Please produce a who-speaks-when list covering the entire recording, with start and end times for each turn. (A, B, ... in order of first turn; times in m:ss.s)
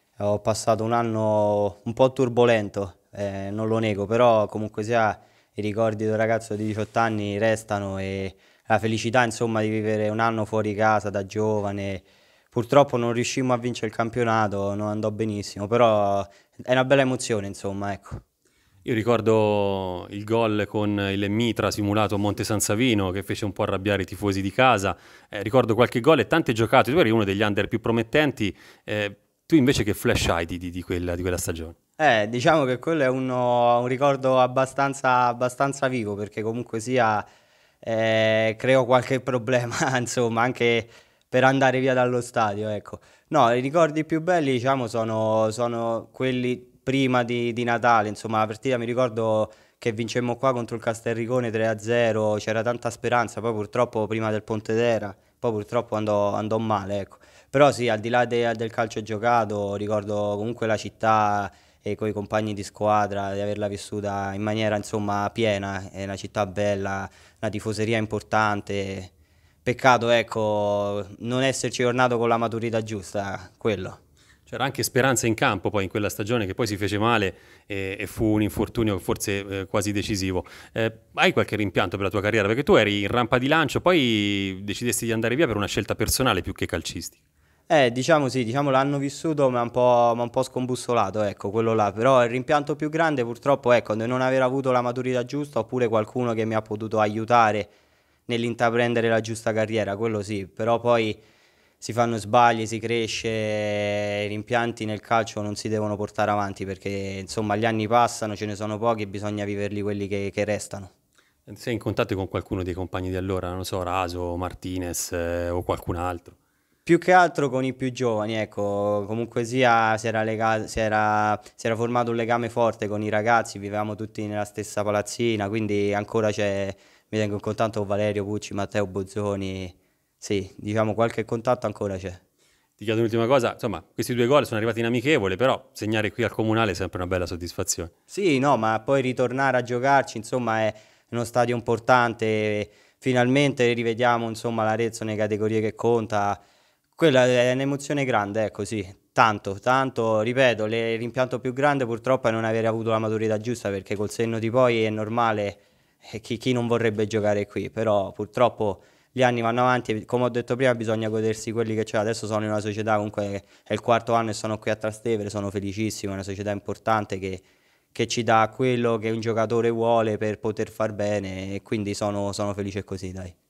0:00.2-0:18.2 A
0:18.8-0:31.7 B
0:32.0-0:37.2 A
0:37.8-1:09.1 A
1:09.6-1:14.0 A
1:14.5-1:27.2 B
1:27.7-1:37.7 A
1:38.3-1:41.2 A
1:41.8-1:50.9 A
1:51.5-1:56.4 B
1:56.8-2:12.2 A
2:12.8-2:17.9 B
2:18.1-2:26.4 A
2:27.0-2:53.3 A